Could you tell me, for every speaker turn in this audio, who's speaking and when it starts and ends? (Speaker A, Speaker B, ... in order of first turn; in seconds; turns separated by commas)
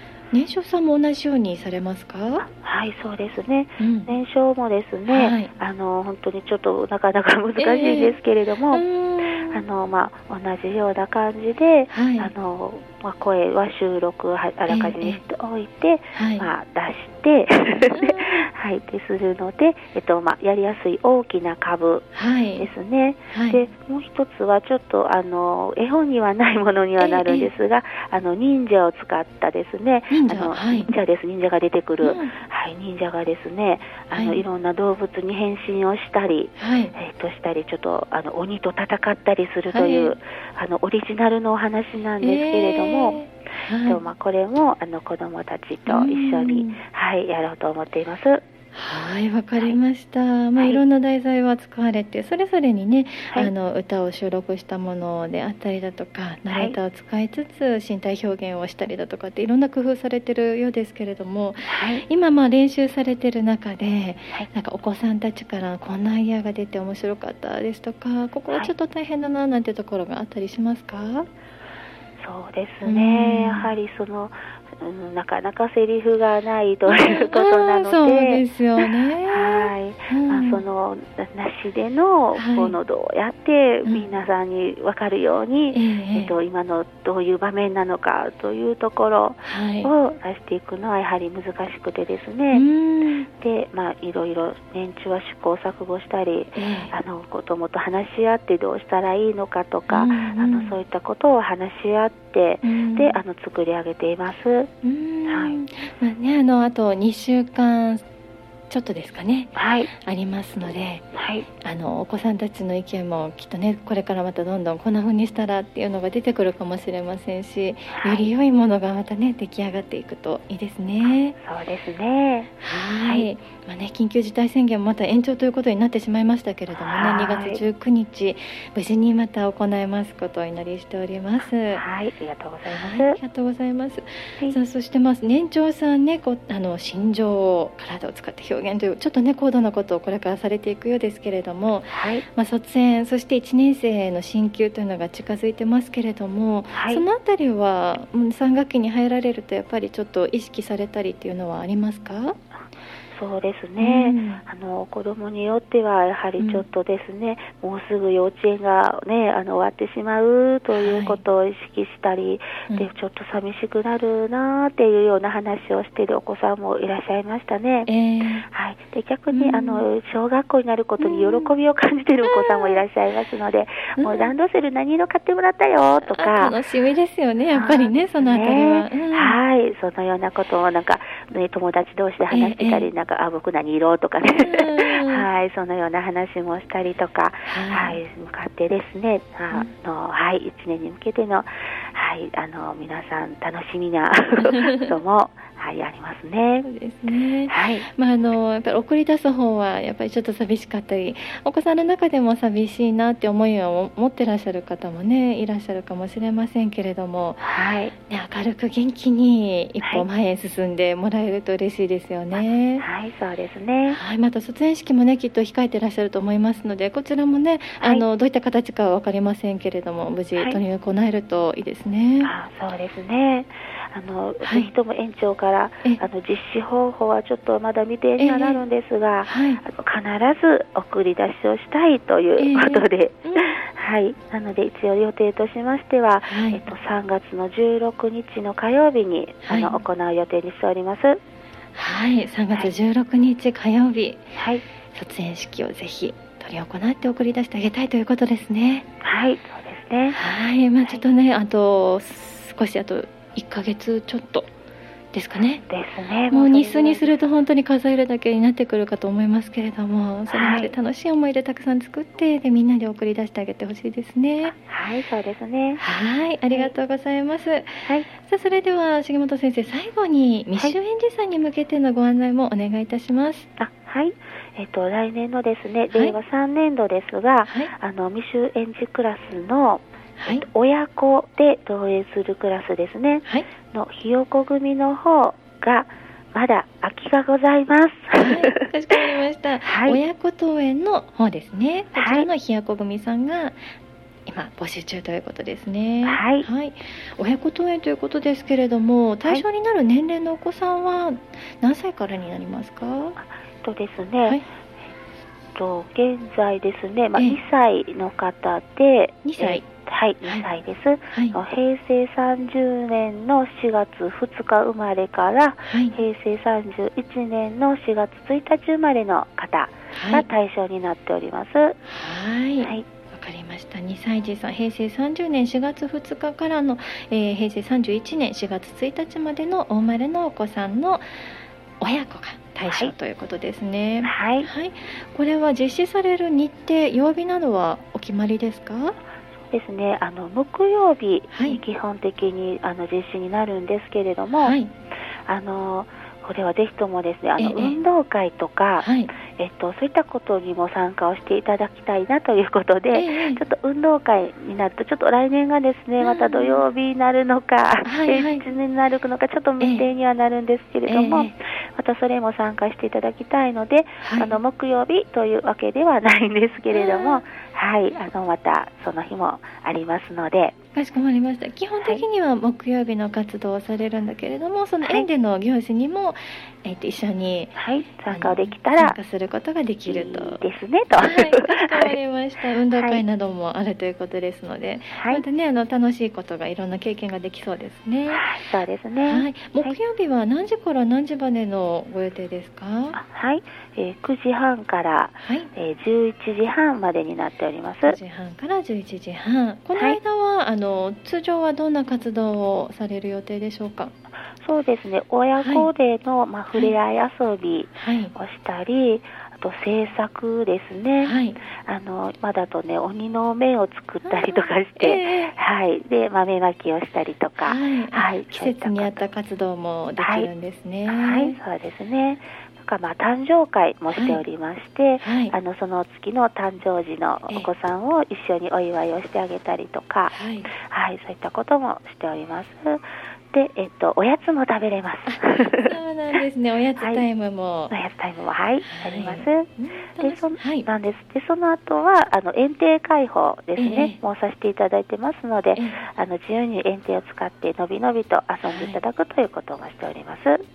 Speaker A: 0.3-2.5, Speaker B: 2.4-8.8, Speaker A: 3.8-4.1, Speaker A: 5.1-5.5, Speaker A: 7.6-8.2, Speaker A: 8.7-9.6, Speaker B: 9.4-22.1, Speaker A: 11.9-12.3, Speaker A: 14.7-15.2, Speaker A: 16.1-16.5, Speaker A: 17.9-18.5, Speaker A: 22.1-22.7, Speaker B: 22.6-43.2, Speaker A: 23.3-23.6, Speaker A: 27.0-27.5, Speaker A: 30.1-30.9, Speaker A: 32.0-32.3, Speaker A: 34.1-34.4, Speaker A: 36.6-36.9, Speaker A: 39.7-40.1, Speaker A: 42.2-44.0, Speaker B: 43.8-48.4, Speaker A: 45.9-46.8, Speaker A: 48.7-71.3, Speaker B: 56.5-56.8, Speaker B: 61.7-62.0, Speaker B: 72.2-92.7, Speaker A: 72.8-73.7, Speaker A: 76.9-80.6, Speaker A: 82.4-82.8, Speaker A: 85.7-86.3, Speaker A: 89.4-89.9, Speaker A: 92.5-93.3, Speaker B: 93.4-104.7, Speaker A: 96.5-96.9, Speaker A: 99.9-100.8, Speaker A: 102.6-103.2, Speaker A: 104.8-108.0, Speaker B: 105.3-105.6, Speaker A: 108.7-111.0, Speaker B: 109.6-109.9, Speaker B: 111.2-111.5, Speaker A: 111.6-121.3, Speaker B: 117.9-118.3, Speaker B: 121.4-123.3, Speaker A: 122.6-131.8, Speaker B: 126.7-127.6, Speaker B: 131.7-133.2, Speaker A: 132.7-152.4, Speaker B: 141.9-142.2, Speaker B: 146.7-147.0, Speaker B: 153.1-167.9, Speaker A: 153.8-154.4, Speaker A: 156.4-156.7, Speaker A: 160.7-161.2, Speaker A: 167.9-168.5, Speaker B: 168.4-176.6, Speaker A: 169.3-169.8, Speaker A: 171.0-171.5, Speaker A: 172.2-172.8, Speaker A: 174.0-174.3, Speaker A: 176.0-179.4, Speaker B: 177.5-196.7, Speaker A: 182.3-182.9, Speaker A: 184.4-185.3, Speaker A: 187.5-188.0, Speaker A: 194.4-194.9, Speaker A: 196.7-207.5, Speaker B: 197.5-197.9, Speaker B: 207.4-207.9, Speaker A: 208.1-212.8, Speaker B: 212.8-214.0, Speaker A: 213.9-222.3, Speaker B: 217.8-218.1, Speaker B: 222.2-241.2, Speaker A: 224.4-224.7, Speaker A: 228.2-228.6, Speaker A: 229.2-229.6, Speaker A: 232.4-233.6, Speaker A: 236.3-236.6, Speaker A: 239.5-239.8, Speaker A: 241.8-244.3, Speaker B: 244.4-244.6, Speaker A: 244.9-248.9, Speaker B: 249.0-250.2, Speaker A: 250.1-254.5, Speaker A: 255.1-255.6, Speaker B: 255.7-257.2, Speaker A: 256.3-264.6, Speaker B: 260.3-260.7, Speaker B: 264.5-265.8, Speaker A: 265.8-273.5, Speaker B: 273.6-289.0, Speaker A: 277.5-277.7, Speaker A: 280.2-280.5, Speaker A: 288.2-293.6, Speaker B: 289.6-290.0, Speaker B: 291.9-292.3, Speaker A: 294.3-303.2, Speaker B: 296.1-296.5, Speaker B: 303.2-304.4, Speaker B: 305.6-321.8, Speaker A: 309.2-309.6, Speaker A: 311.1-311.4, Speaker A: 315.7-316.0, Speaker A: 319.9-320.3, Speaker A: 321.9-331.1, Speaker A: 331.8-339.0, Speaker B: 334.0-334.5, Speaker B: 339.5-344.6, Speaker A: 341.3-341.6, Speaker A: 344.4-344.7, Speaker B: 345.3-370.6, Speaker A: 347.4-347.8, Speaker A: 348.8-349.1, Speaker A: 352.9-353.4, Speaker A: 356.0-356.6, Speaker A: 357.9-358.4, Speaker A: 359.6-359.9, Speaker A: 360.9-361.3, Speaker A: 364.0-364.4, Speaker A: 366.7-367.2, Speaker A: 370.8-377.6, Speaker B: 377.6-379.0, Speaker A: 378.1-380.4, Speaker B: 379.9-382.0, Speaker A: 381.0-388.3, Speaker B: 382.7-383.0, Speaker B: 384.9-385.2, Speaker B: 388.1-389.8, Speaker A: 389.1-393.0, Speaker B: 392.9-398.0, Speaker A: 395.2-395.5, Speaker A: 397.9-403.9, Speaker B: 404.4-419.0, Speaker A: 405.4-405.7, Speaker A: 407.8-408.1, Speaker A: 411.0-411.4, Speaker A: 414.1-415.4, Speaker A: 417.4-421.4, Speaker B: 420.0-420.3, Speaker B: 420.9-435.8, Speaker A: 423.9-424.2, Speaker A: 425.0-425.4, Speaker A: 430.1-430.5, Speaker A: 435.1-437.7, Speaker B: 437.7-450.4, Speaker A: 438.6-440.7, Speaker A: 443.6-444.0, Speaker A: 445.6-445.8, Speaker A: 448.5-448.8